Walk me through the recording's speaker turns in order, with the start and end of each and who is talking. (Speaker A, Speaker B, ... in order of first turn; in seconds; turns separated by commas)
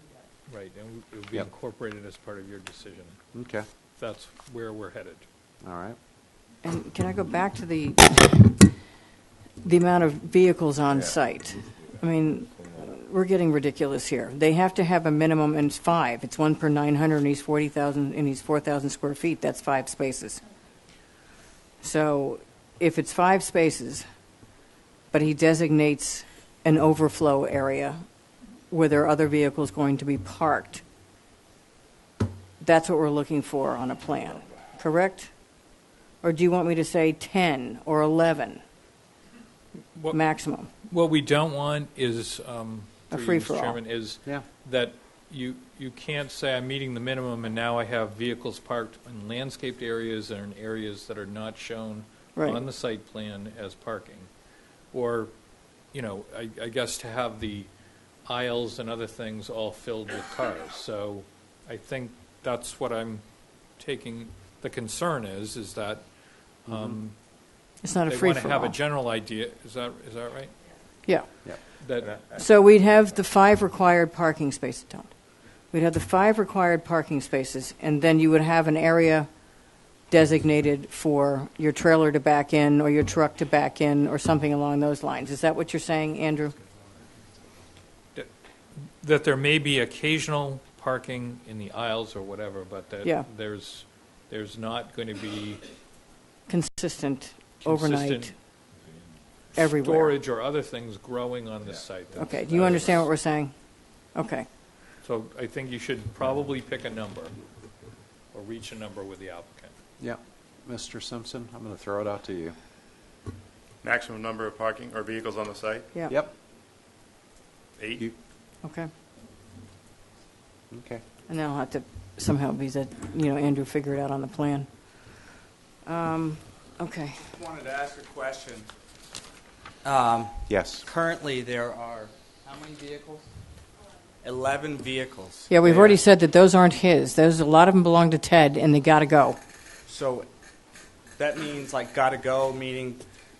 Speaker A: 0.5-3.1, Speaker B: 3.3-3.6, Speaker A: 4.0-5.2, Speaker B: 5.6-6.0, Speaker C: 6.6-8.7, Speaker C: 9.6-20.4, Speaker C: 21.8-24.0, Speaker C: 25.1-28.0, Speaker C: 28.7-30.8, Speaker C: 32.6-35.3, Speaker C: 36.2-38.6, Speaker C: 40.1-40.7, Speaker A: 40.8-54.3, Speaker C: 43.1-43.8, Speaker A: 54.9-55.3, Speaker A: 55.9-57.7, Speaker A: 58.2-63.2, Speaker A: 63.8-66.0, Speaker A: 66.6-67.1, Speaker C: 67.8-68.7, Speaker A: 68.0-70.5, Speaker C: 71.0-71.3, Speaker A: 71.8-72.1, Speaker C: 72.3-75.1, Speaker C: 75.7-79.3, Speaker C: 80.1-86.5, Speaker A: 89.0-95.6, Speaker C: 96.5-98.3, Speaker A: 97.6-98.3, Speaker C: 99.5-100.2, Speaker A: 99.7-102.9, Speaker C: 102.2-103.5, Speaker C: 104.1-104.5, Speaker A: 105.0-107.3, Speaker A: 108.3-109.7, Speaker B: 110.0-112.5, Speaker D: 113.8-115.9, Speaker D: 117.8-118.1, Speaker C: 118.6-118.9, Speaker B: 120.7-121.0, Speaker C: 121.3-124.7, Speaker C: 125.8-127.2, Speaker E: 127.3-128.7, Speaker E: 129.8-133.2, Speaker B: 130.5-130.8, Speaker E: 134.2-136.0, Speaker C: 135.5-139.4, Speaker E: 139.8-140.3, Speaker E: 141.2-143.0